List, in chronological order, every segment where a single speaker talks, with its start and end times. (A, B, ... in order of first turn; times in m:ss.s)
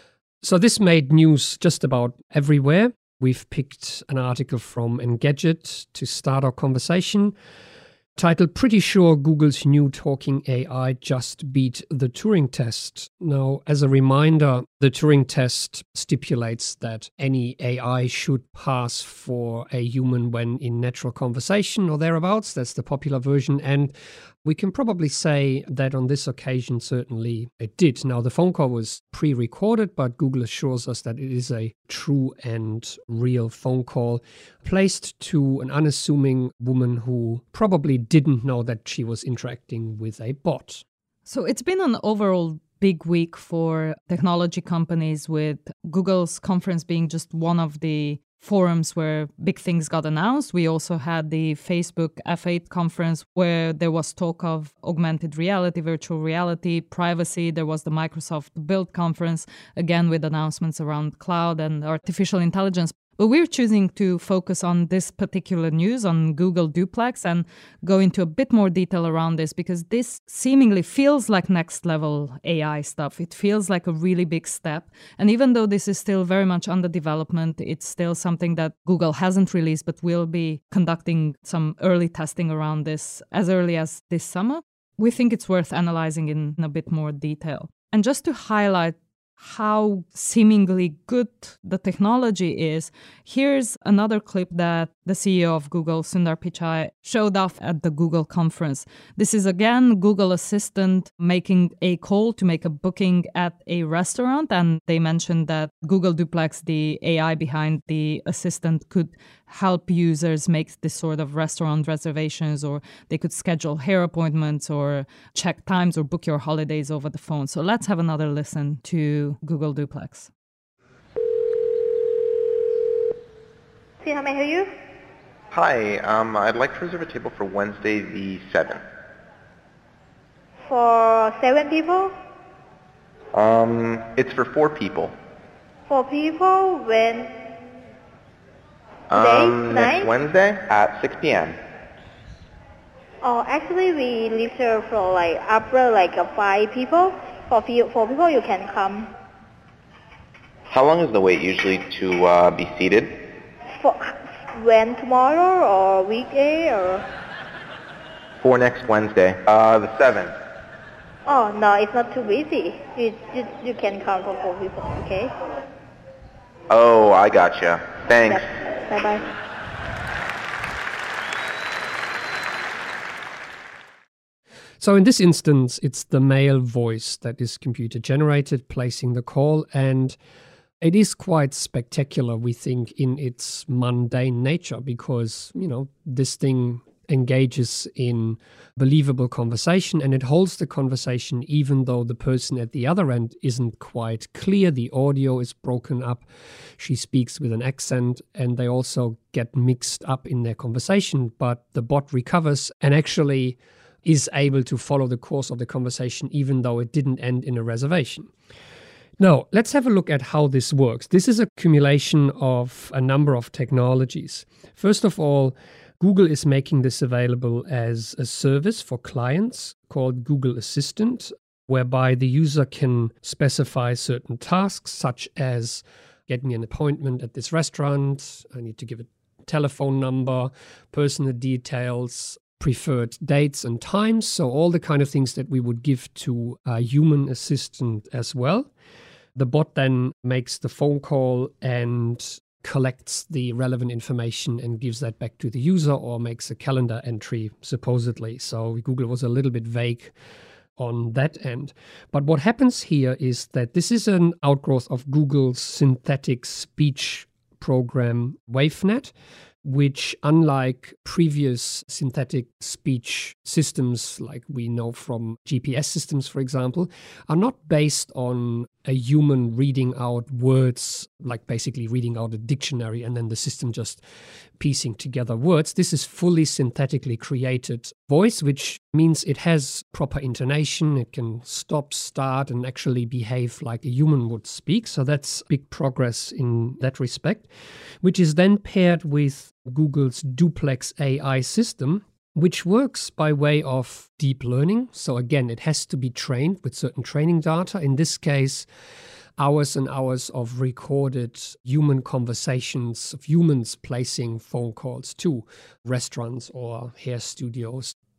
0:00.4-0:07.3 A
0:08.2-0:40.8 A
0:41.2-2:00.3 B
2:04.0-2:04.7 C
2:05.5-2:08.8 D
2:10.7-2:12.1 C
2:13.3-2:15.1 D
2:15.9-2:17.3 C
2:19.1-2:21.6 D
2:19.1-2:20.1 C
2:23.2-2:29.1 C
2:30.7-2:33.1 D
2:33.8-2:37.0 C
2:38.4-2:40.3 D
2:41.3-2:45.3 C
2:46.7-2:48.5 D
2:48.2-2:49.2 C
2:54.8-3:00.2 A
3:00.8-3:16.2 A
3:16.8-3:28.3 A
3:29.2-3:58.7 A
3:59.3-4:10.1 A
4:10.8-4:19.1 A
4:19.6-4:34.0 A
4:34.6-4:47.5 A
4:48.0-4:58.7 A
4:59.4-5:07.9 A